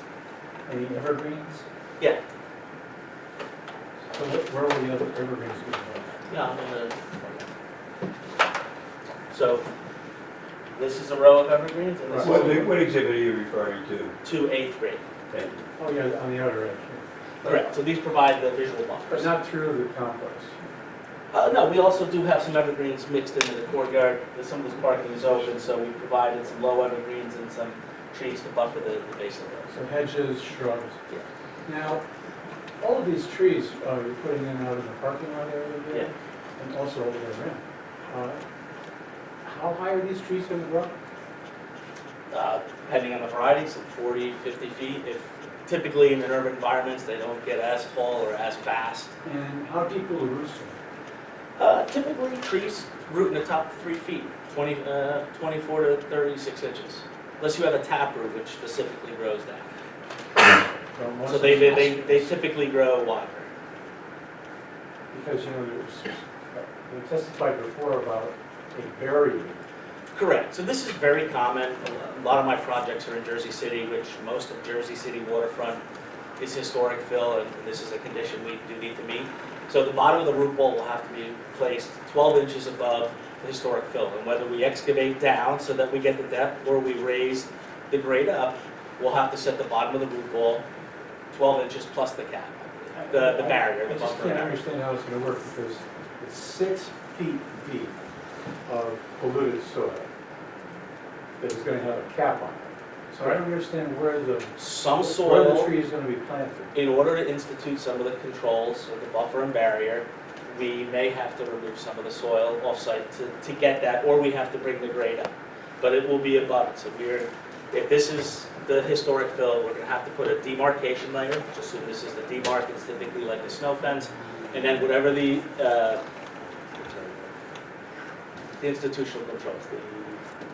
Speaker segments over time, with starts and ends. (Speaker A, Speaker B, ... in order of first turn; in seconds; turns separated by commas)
Speaker A: 0.7-1.6, Speaker A: 4.1-6.1, Speaker B: 6.3-7.5, Speaker B: 9.3-9.6, Speaker B: 10.7-12.8, Speaker A: 12.1-12.5, Speaker C: 12.2-14.2, Speaker B: 14.2-15.0, Speaker C: 15.3-15.7, Speaker A: 15.8-17.0, Speaker B: 17.4-19.3, Speaker A: 19.1-20.6, Speaker B: 21.3-29.7, Speaker A: 29.7-31.0, Speaker A: 31.6-32.0, Speaker A: 32.8-38.4, Speaker A: 39.4-41.0, Speaker B: 42.3-49.1, Speaker A: 49.2-50.8, Speaker B: 51.6-59.7, Speaker A: 61.0-62.4, Speaker B: 61.3-63.5, Speaker A: 65.1-69.5, Speaker B: 70.1-75.8, Speaker B: 76.4-90.6, Speaker B: 91.3-94.6, Speaker A: 93.0-97.9, Speaker A: 98.7-100.1, Speaker A: 101.4-106.7, Speaker B: 104.6-105.7, Speaker B: 106.7-126.0, Speaker B: 128.6-130.2